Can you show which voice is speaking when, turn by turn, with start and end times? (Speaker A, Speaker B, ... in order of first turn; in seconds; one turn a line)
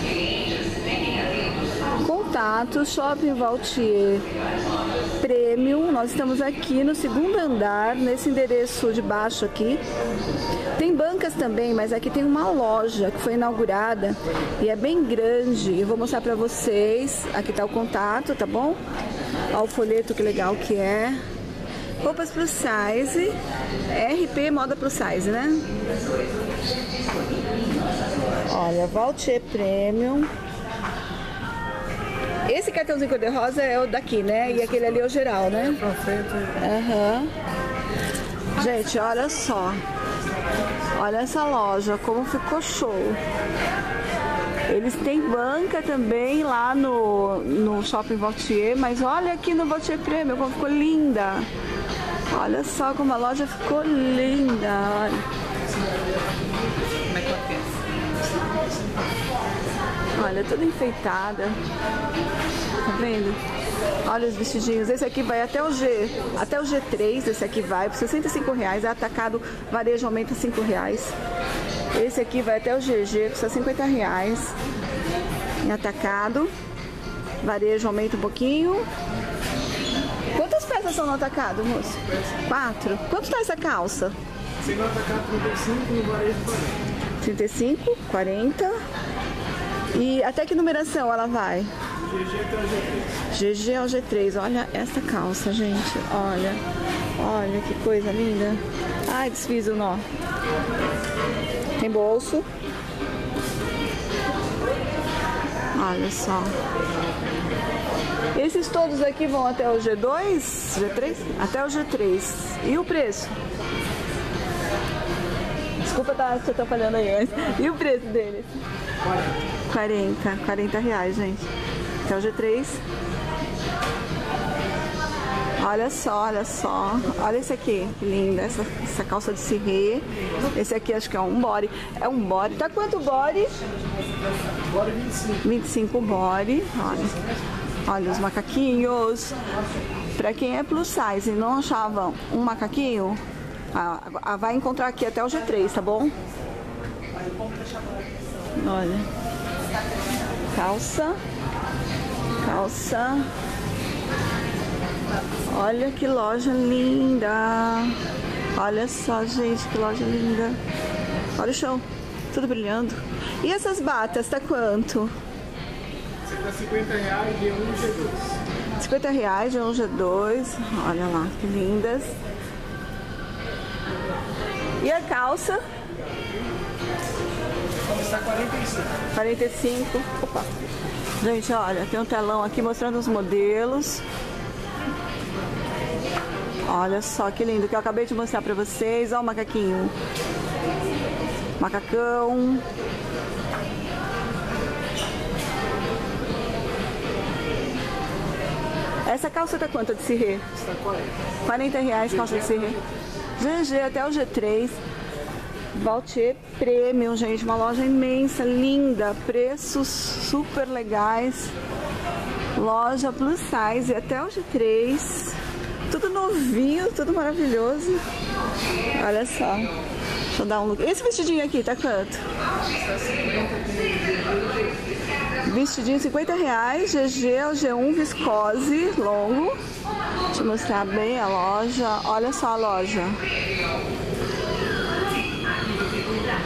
Speaker A: 2.0-4.2
Speaker A: 5.2-9.8
Speaker A: 10.8-18.8
Speaker A: 19.5-21.2
Speaker A: 22.0-23.4
Speaker A: 23.9-25.7
Speaker A: 28.5-30.3
Speaker A: 32.5-35.8
Speaker B: 35.6-36.6
Speaker A: 36.5-37.3
Speaker A: 38.5-39.8
Speaker A: 40.9-43.2
Speaker A: 44.7-51.5
Speaker A: 52.3-55.2
Speaker B: 57.1-57.4
Speaker A: 60.1-61.6
Speaker A: 62.8-63.4
Speaker A: 64.0-71.1
Speaker A: 71.9-74.5
Speaker A: 75.6-76.5
Speaker A: 77.4-78.9
Speaker A: 80.3-84.1
Speaker B: 84.6-86.8
Speaker A: 87.2-88.8
Speaker A: 89.9-91.7
Speaker B: 92.1-93.0
Speaker A: 93.3-96.6
Speaker A: 97.2-100.0
Speaker A: 101.8-102.5
Speaker A: 105.7-106.6
Speaker A: 108.3-113.4
Speaker A: 115.8-118.6
Speaker B: 119.0-119.3
Speaker A: 119.7-121.5
Speaker A: 122.0-122.8
Speaker A: 125.6-133.5
Speaker B: 134.6-135.5
Speaker A: 135.4-137.2
Speaker B: 136.8-137.4
Speaker A: 137.8-139.4
Speaker A: 140.1-143.2
Speaker A: 143.7-146.1
Speaker A: 148.6-149.1
Speaker A: 150.5-151.2
Speaker A: 152.4-153.3
Speaker A: 155.5-158.0
Speaker A: 158.5-160.6
Speaker A: 161.4-165.1
Speaker B: 166.2-168.4
Speaker A: 168.8-172.2
Speaker A: 174.8-175.6
Speaker B: 177.8-178.9
Speaker A: 179.1-180.5
Speaker A: 181.2-184.0
Speaker A: 186.7-189.9
Speaker A: 191.6-192.6
Speaker A: 199.1-200.4
Speaker B: 200.5-201.2
Speaker A: 201.4-202.8
Speaker B: 202.0-202.8
Speaker A: 203.4-204.8
Speaker A: 205.7-211.5
Speaker A: 212.6-215.4
Speaker A: 215.9-218.0
Speaker A: 218.9-219.7
Speaker A: 220.3-222.2
Speaker B: 222.7-224.7
Speaker A: 225.4-229.6
Speaker A: 230.3-233.2